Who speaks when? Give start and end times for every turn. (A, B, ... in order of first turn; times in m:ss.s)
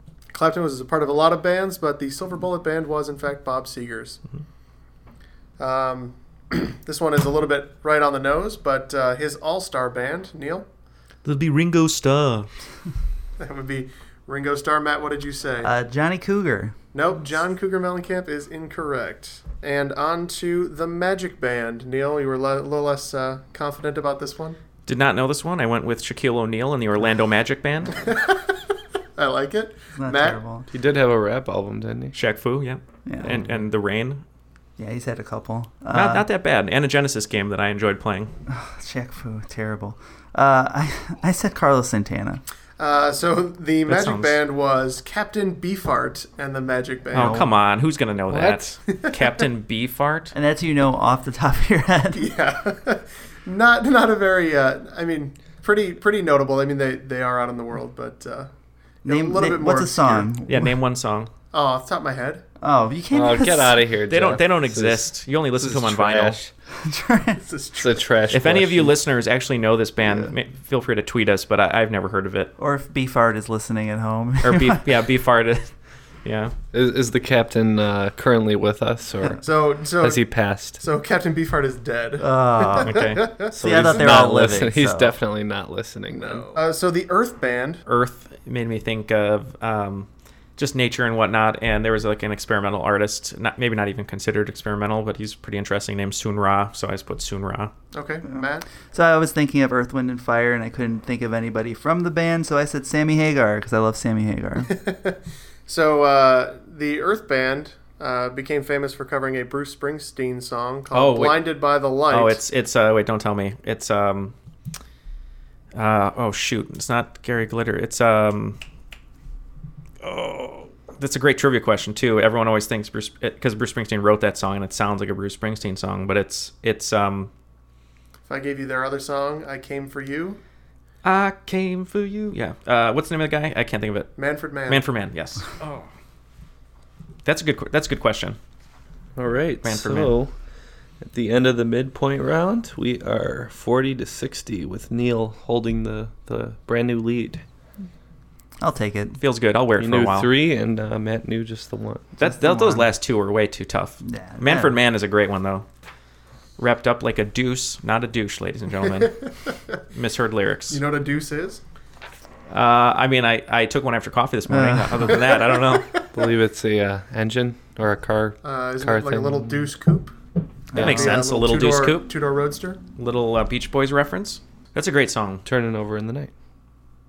0:00.3-0:04.2 A
0:05.6-0:10.7 A
0:11.2-0:12.5 B
0:13.4-0:15.7 A
0:15.6-0:16.8 C
0:16.9-0:24.6 A
0:24.9-0:28.0 B
0:28.0-0:28.4 A
0:29.2-0:30.4 A
0:30.0-0:30.7 C
0:30.7-0:32.2 D
0:32.1-0:34.2 B
0:33.0-0:33.5 C
0:34.8-0:36.3 C
0:35.9-0:38.3 B
0:38.5-0:42.4 C
0:42.8-0:47.4 A
0:43.9-0:44.4 B
0:47.1-0:47.5 C
0:47.1-0:50.3 B
0:48.4-0:49.2 A
0:50.3-0:52.3 C
0:52.1-0:58.5 A
0:59.0-1:00.3 A
0:59.0-1:00.8 C
1:00.5-1:01.3 B
1:01.5-1:02.4 A
1:02.6-1:03.9 C
1:03.1-1:06.4 D
1:04.1-1:06.5 B
1:06.7-1:07.4 C
1:07.4-1:08.1 A
1:07.8-1:09.0 D
1:08.3-1:12.5 B
1:10.0-1:10.3 C
1:12.6-1:14.9 C
1:14.4-1:15.7 B
1:16.2-1:16.5 B
1:16.7-1:20.8 D
1:19.4-1:23.8 A
1:22.2-1:25.2 C
1:22.8-1:23.3 B
1:23.5-1:26.5 D
1:26.1-1:27.8 A
1:27.9-1:37.7 B
1:37.9-1:38.6 A
1:38.3-1:44.8 C
1:44.7-1:52.4 A
1:50.9-1:51.5 B
1:52.1-1:54.4 B
1:55.8-1:58.6 B
2:00.0-2:07.3 B
2:08.3-2:10.4 A
2:11.0-2:14.1 B
2:14.2-2:14.8 A
2:14.7-2:15.8 B
2:17.2-2:18.4 B
2:19.2-2:20.3 D
2:19.6-2:20.2 B
2:21.0-2:27.4 D
2:28.6-2:29.2 C
2:29.2-2:30.3 B
2:29.8-2:32.1 D
2:32.2-2:35.7 B
2:32.2-2:32.9 C
2:34.0-2:34.8 C
2:36.6-2:39.2 B
2:39.0-2:39.6 A
2:39.9-2:40.8 B
2:40.7-2:41.6 A
2:42.5-2:46.0 B
2:44.5-2:45.2 C
2:45.7-2:46.0 A
2:46.1-2:49.7 D
2:48.4-2:50.1 A
2:50.7-2:51.2 C
2:50.8-2:52.8 A
2:50.8-2:52.1 B
2:53.0-2:55.4 B
2:55.4-2:56.3 D